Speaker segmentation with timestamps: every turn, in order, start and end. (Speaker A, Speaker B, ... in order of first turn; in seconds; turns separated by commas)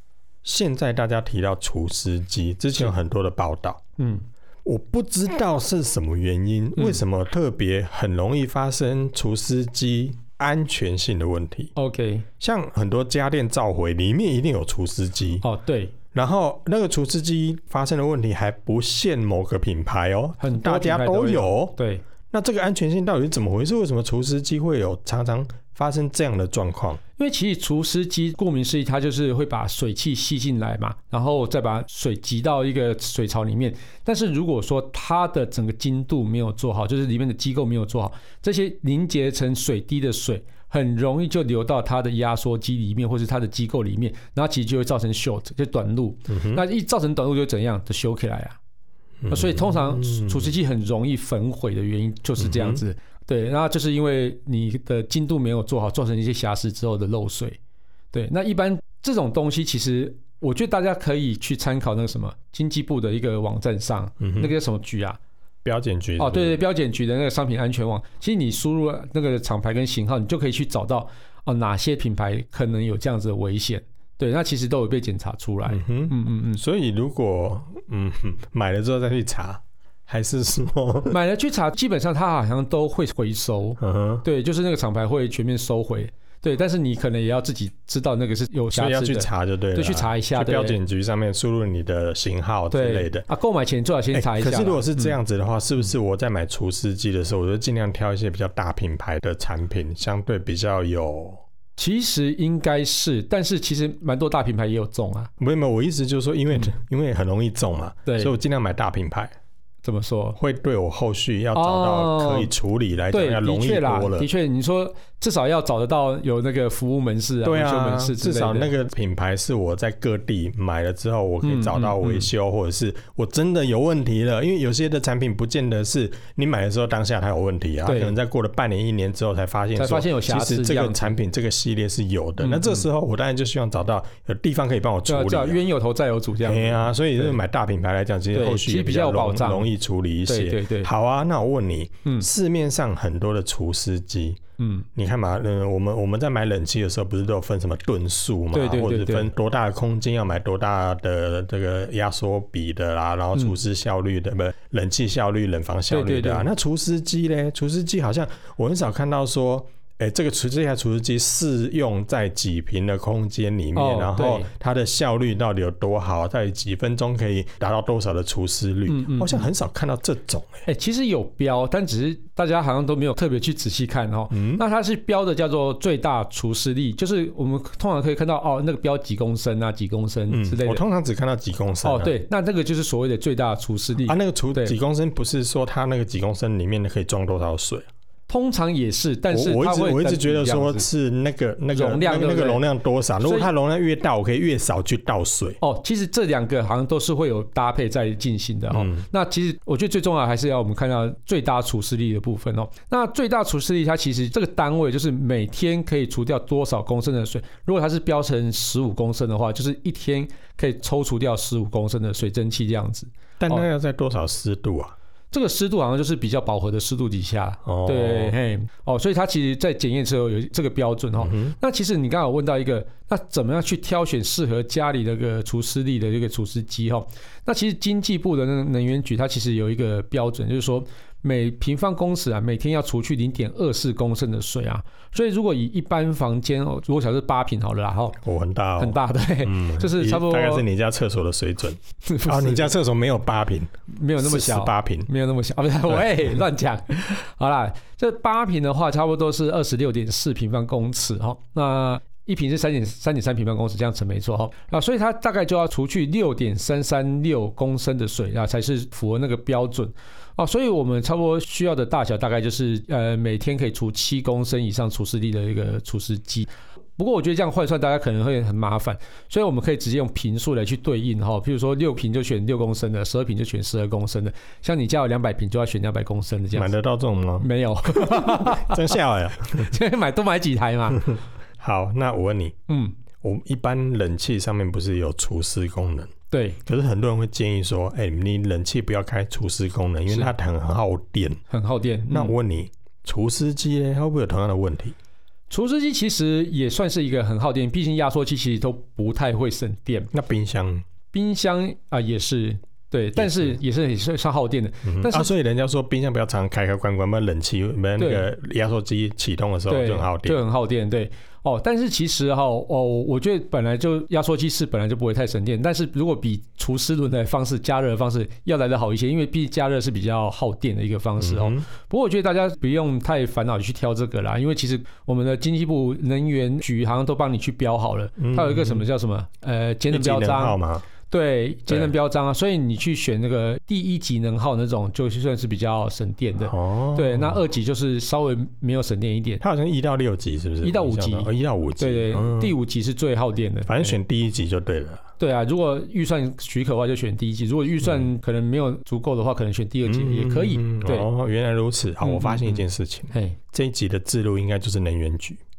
Speaker A: 0.4-3.8, Speaker B: 4.0-4.2, Speaker A: 4.7-11.7, Speaker B: 11.8-12.3, Speaker A: 12.4-15.4, Speaker B: 15.4-15.9, Speaker A: 16.1-21.8, Speaker B: 20.4-22.0, Speaker A: 22.3-27.0, Speaker B: 27.2-48.6, Speaker A: 46.3-46.6, Speaker A: 49.2-50.5, Speaker B: 49.3-57.6, Speaker A: 52.4-52.8, Speaker B: 58.1-65.2, Speaker A: 64.2-64.5, Speaker A: 65.7-66.6, Speaker B: 66.2-76.6, Speaker A: 75.7-81.2, Speaker B: 81.1-90.8, Speaker A: 83.8-84.2, Speaker A: 88.7-93.2, Speaker B: 92.7-95.2, Speaker A: 94.1-101.4, Speaker B: 101.8-105.3, Speaker A: 105.4-109.3, Speaker B: 108.1-108.3, Speaker B: 109.8-110.4, Speaker A: 110.4-114.3, Speaker B: 111.5-112.5, Speaker B: 113.1-118.7, Speaker A: 117.4-135.6, Speaker B: 121.4-122.3, Speaker B: 127.9-128.2, Speaker B: 129.8-131.1, Speaker B: 132.4-132.8, Speaker B: 135.1-137.4, Speaker A: 136.4-144.4, Speaker B: 138.3-139.7, Speaker B: 140.3-140.9, Speaker B: 144.6-144.9, Speaker A: 144.9-170.7, Speaker B: 148.5-149.3, Speaker B: 155.9-156.5, Speaker B: 163.8-164.5, Speaker B: 168.9-169.5, Speaker B: 170.7-180.8, Speaker A: 174.3-174.6, Speaker A: 180.3-182.2, Speaker B: 181.8-184.8, Speaker A: 184.1-187.9, Speaker B: 188.3-190.9, Speaker A: 189.3-195.6, Speaker B: 191.7-192.6, Speaker B: 193.2-193.5, Speaker B: 195.6-213.7, Speaker A: 198.7-199.0, Speaker A: 213.4-214.9, Speaker B: 215.3-238.2, Speaker A: 217.7-218.3, Speaker A: 221.2-221.6, Speaker A: 238.2-245.1, Speaker B: 238.8-240.7, Speaker B: 242.0-242.7, Speaker B: 243.9-276.7, Speaker A: 276.6-279.8, Speaker B: 277.4-281.2, Speaker A: 281.1-282.6, Speaker B: 282.7-283.0, Speaker A: 283.2-286.1, Speaker B: 286.3-286.6, Speaker A: 286.6-291.4, Speaker B: 291.5-292.4, Speaker A: 292.1-294.9, Speaker B: 295.5-300.1, Speaker A: 300.1-300.9, Speaker B: 301.1-305.3, Speaker A: 303.2-303.6, Speaker A: 304.9-310.4, Speaker B: 308.0-308.2, Speaker B: 309.7-330.6, Speaker A: 321.2-321.7, Speaker A: 328.2-328.9, Speaker A: 329.9-330.9, Speaker B: 331.1-339.4, Speaker A: 331.7-331.9, Speaker A: 336.4-337.4, Speaker A: 339.4-342.5, Speaker B: 340.6-344.0, Speaker A: 343.7-345.0, Speaker B: 345.2-351.1, Speaker A: 349.9-355.4, Speaker B: 352.0-353.4